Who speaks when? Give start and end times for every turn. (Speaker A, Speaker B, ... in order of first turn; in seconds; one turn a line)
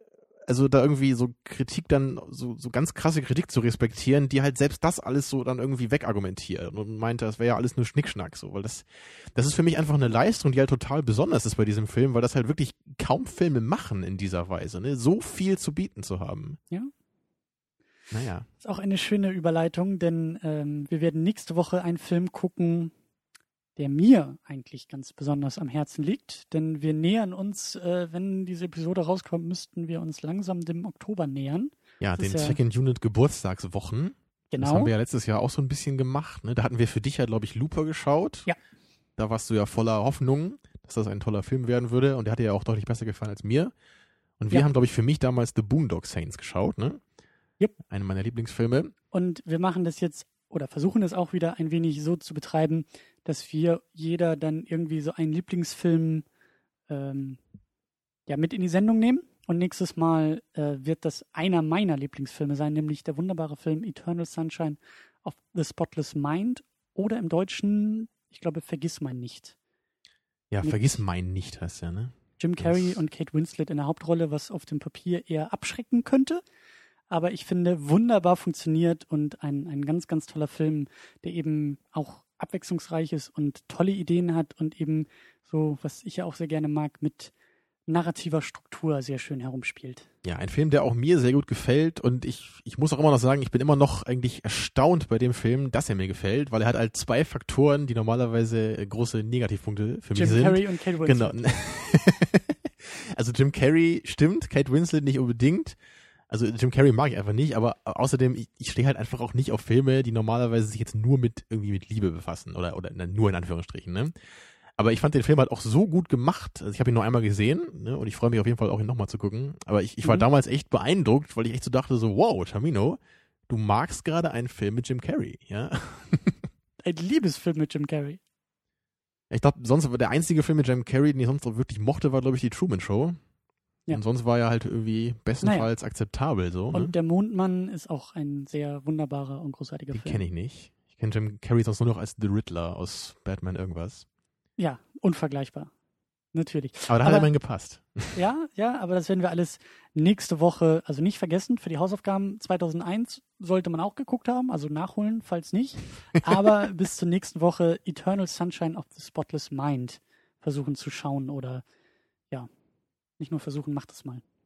Speaker A: 0.5-16.6
Speaker A: 18.1-18.5
Speaker B: 18.6-22.9
Speaker B: 23.8-32.6
Speaker A: 32.0-38.5
Speaker B: 34.5-34.9
Speaker A: 39.2-43.7
Speaker A: 44.4-47.0
Speaker A: 47.9-48.9
Speaker B: 49.1-56.2
Speaker B: 56.9-57.4
Speaker B: 58.3-69.5
Speaker A: 70.5-73.0
Speaker B: 70.6-71.0
Speaker B: 72.4-76.4
Speaker B: 77.1-87.3
Speaker B: 87.9-90.0
Speaker A: 90.2-105.8
Speaker B: 100.1-101.4
Speaker A: 106.3-114.1
Speaker A: 114.8-126.5
Speaker B: 126.8-128.2
Speaker A: 129.3-133.2
Speaker A: 133.9-136.9
Speaker B: 135.4-135.7
Speaker B: 136.7-140.2
Speaker A: 139.9-144.0
Speaker B: 144.6-145.7
Speaker B: 146.3-147.3
Speaker A: 146.9-148.2
Speaker B: 148.1-161.6
Speaker B: 163.2-164.2